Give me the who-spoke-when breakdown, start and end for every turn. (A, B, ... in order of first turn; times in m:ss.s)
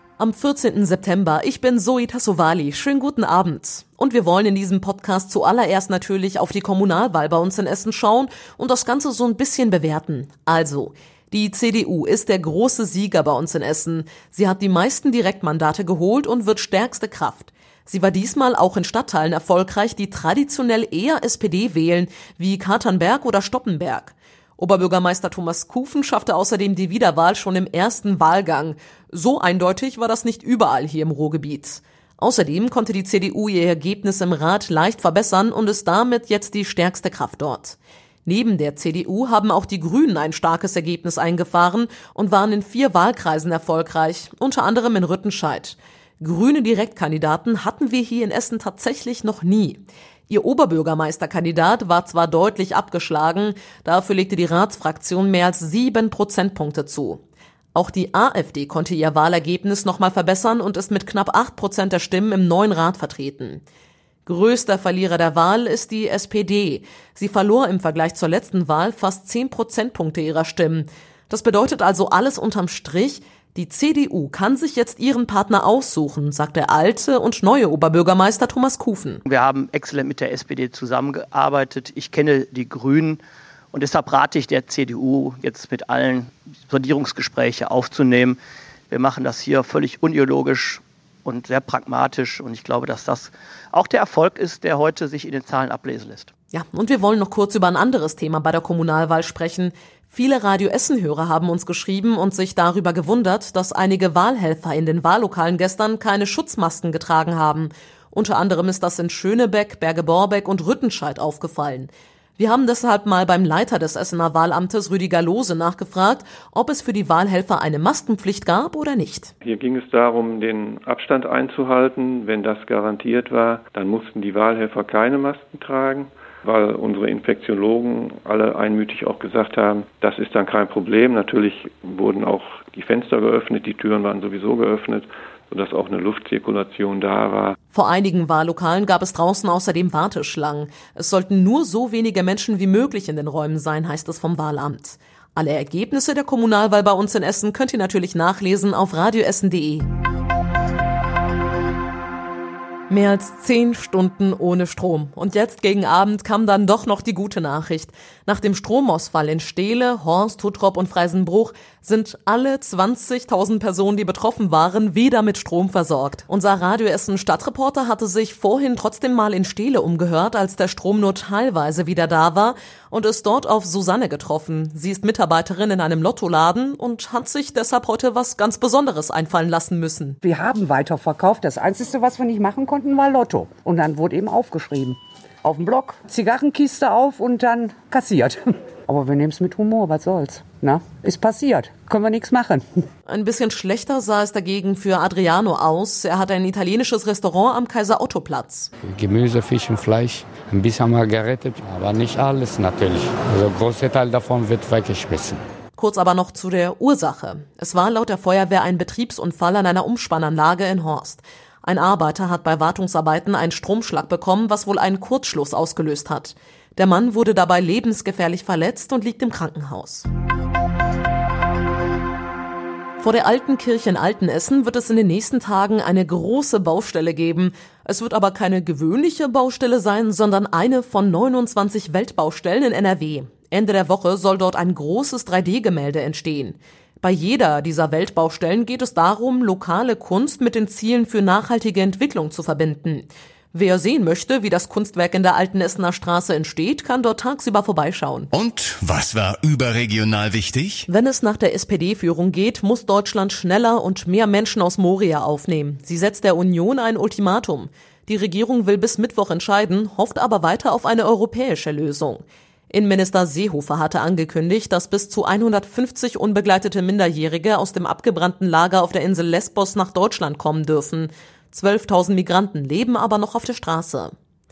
0:00.2-0:57.2 A
0:57.7-1:03.6 A
1:04.2-1:19.2 A
1:19.2-1:28.4 B
1:28.9-1:36.3 B
1:36.5-1:59.3 A
1:59.4-2:17.6 C
2:17.7-2:29.8 A
2:32.9-3:00.2 A
3:00.2-3:12.6 D
3:13.1-3:18.7 A
3:18.8-3:25.4 E
3:25.8-3:40.1 A
3:43.0-4:08.3 A
4:08.3-4:10.9 F
4:10.9-4:34.1 A